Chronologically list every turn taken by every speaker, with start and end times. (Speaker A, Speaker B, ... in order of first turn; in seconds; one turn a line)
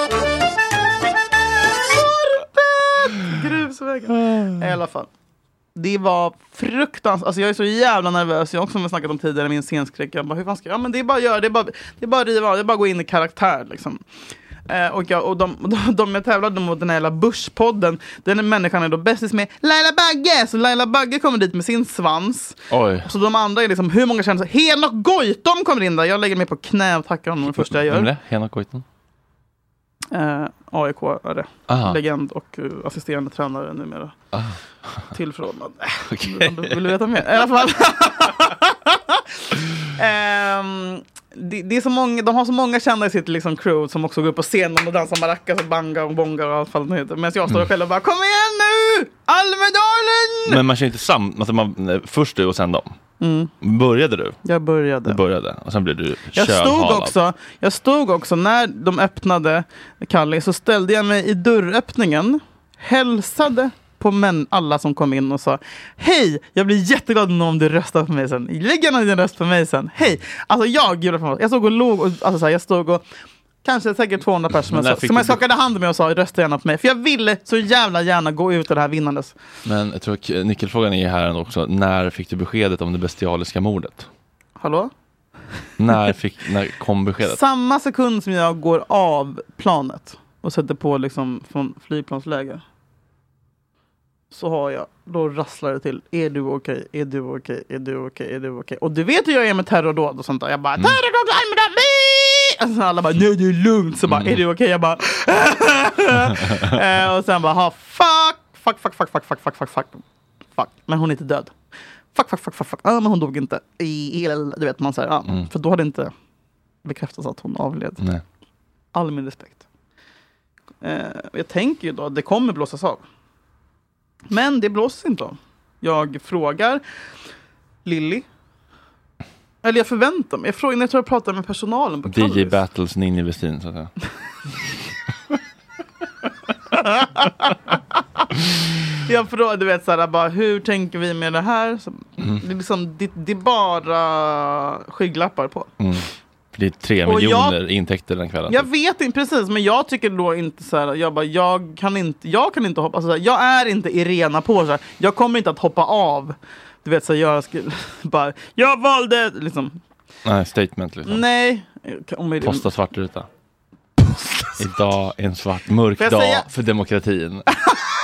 Speaker A: 1.9-5.1
Speaker A: 5.8-14.0
Speaker A: 14.7-28.1
Speaker B: 22.7-23.1
Speaker B: 27.4-28.8
Speaker A: 30.1-34.2
Speaker B: 31.7-32.0
Speaker B: 34.3-35.1
Speaker A: 35.1-39.2
Speaker B: 36.1-36.9
Speaker A: 39.9-50.6
Speaker B: 50.5-53.0
Speaker A: 53.2-53.5
Speaker B: 53.6-54.4
Speaker A: 54.4-55.2
Speaker B: 55.1-57.1
Speaker A: 56.4-73.0
Speaker A: 73.6-79.3
Speaker B: 74.6-75.4
Speaker B: 79.7-84.1
Speaker A: 84.6-84.9
Speaker B: 85.8-87.4
Speaker A: 87.2-92.6
Speaker A: 94.3-110.0
Speaker B: 104.1-104.4
Speaker A: 110.6-111.5
Speaker A: 112.1-116.1
Speaker A: 116.8-118.0
Speaker A: 118.9-119.6
Speaker A: 120.8-123.0
Speaker A: 124.3-126.8
Speaker A: 127.8-128.3
Speaker A: 129.6-132.6
Speaker B: 132.1-133.9
Speaker A: 136.8-137.4
Speaker A: 139.1-145.7
Speaker B: 145.8-148.7
Speaker A: 147.1-147.6
Speaker A: 148.5-159.8
Speaker B: 160.2-161.2
Speaker A: 161.1-162.7
Speaker B: 162.4-163.3
Speaker A: 164.0-164.6
Speaker B: 164.6-167.5
Speaker A: 166.0-166.5
Speaker A: 167.5-167.9